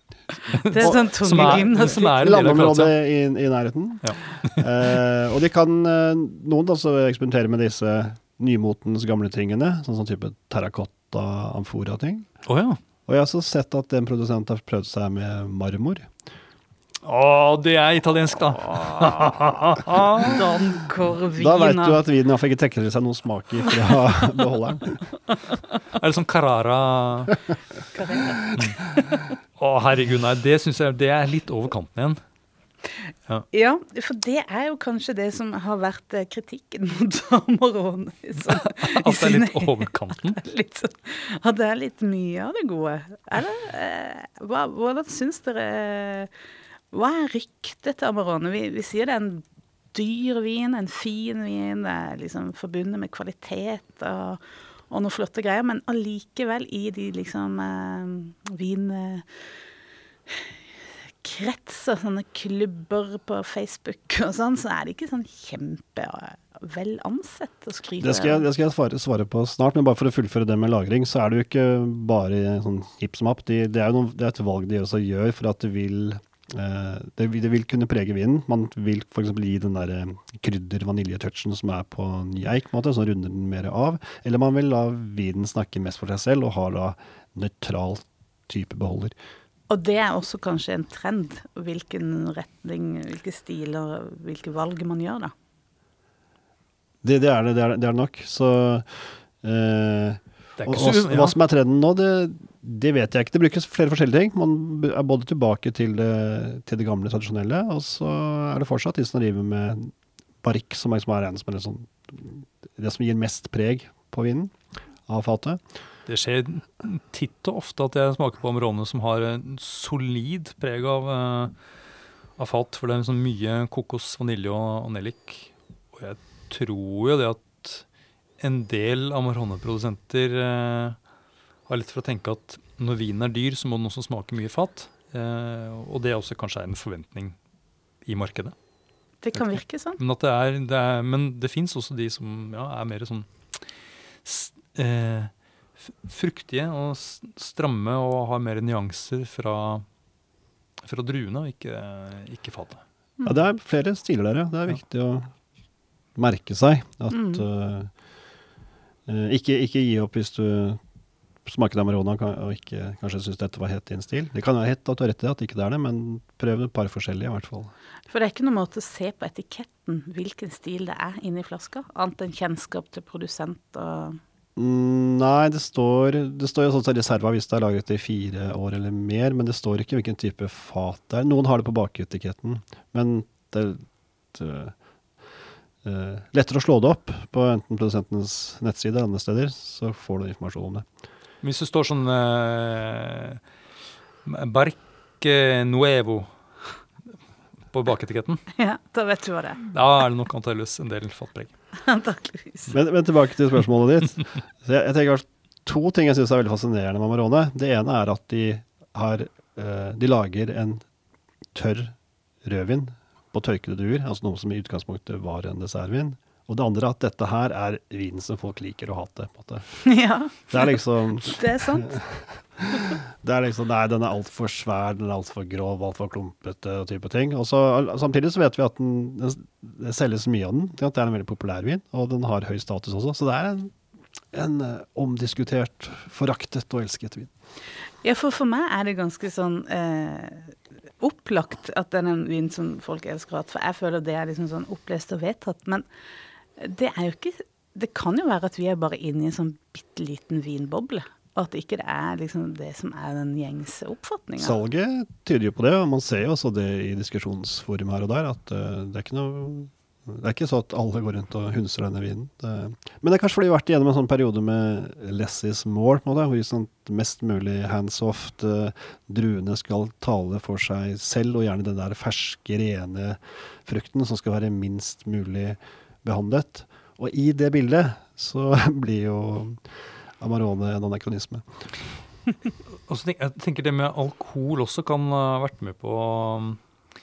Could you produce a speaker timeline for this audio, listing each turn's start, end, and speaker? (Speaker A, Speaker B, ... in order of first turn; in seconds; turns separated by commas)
Speaker A: 0.5-3.0, Speaker B: 0.6-2.2, Speaker C: 0.8-12.3, Speaker A: 4.0-4.6, Speaker A: 12.4-12.8, Speaker C: 13.1-16.1, Speaker A: 17.0-20.5, Speaker B: 20.2-22.0, Speaker C: 21.4-25.0, Speaker A: 25.9-27.4, Speaker B: 27.9-28.5, Speaker A: 28.5-32.2, Speaker B: 33.5-46.3, Speaker A: 38.4-40.4, Speaker B: 46.9-59.3, Speaker B: 61.2-68.5, Speaker C: 68.0-89.1, Speaker B: 89.7-95.3, Speaker C: 97.0-114.5, Speaker A: 100.6-101.3, Speaker C: 115.1-115.6, Speaker A: 116.1-121.5, Speaker A: 122.4-127.8, Speaker A: 128.4-131.0, Speaker A: 131.7-137.3, Speaker A: 138.0-138.5, Speaker B: 139.2-140.0, Speaker A: 139.3-143.6, Speaker A: 144.2-149.8, Speaker A: 150.8-152.8, Speaker C: 153.2-155.3, Speaker C: 156.2-157.9, Speaker B: 157.1-157.4, Speaker C: 159.1-160.8, Speaker C: 161.4-167.7, Speaker B: 168.1-174.2, Speaker C: 174.6-184.7, Speaker C: 185.8-190.8, Speaker A: 191.4-193.4, Speaker A: 194.2-196.3, Speaker A: 197.7-198.4, Speaker B: 198.6-199.6, Speaker A: 199.6-201.5, Speaker B: 201.8-202.7, Speaker C: 202.7-210.8, Speaker C: 211.5-219.7, Speaker B: 219.8-220.5, Speaker C: 220.5-233.7, Speaker B: 221.2-222.0, Speaker C: 234.3-237.3, Speaker B: 238.0-245.8, Speaker B: 246.6-254.6, Speaker C: 254.4-279.6, Speaker C: 280.2-281.4, Speaker A: 282.9-286.6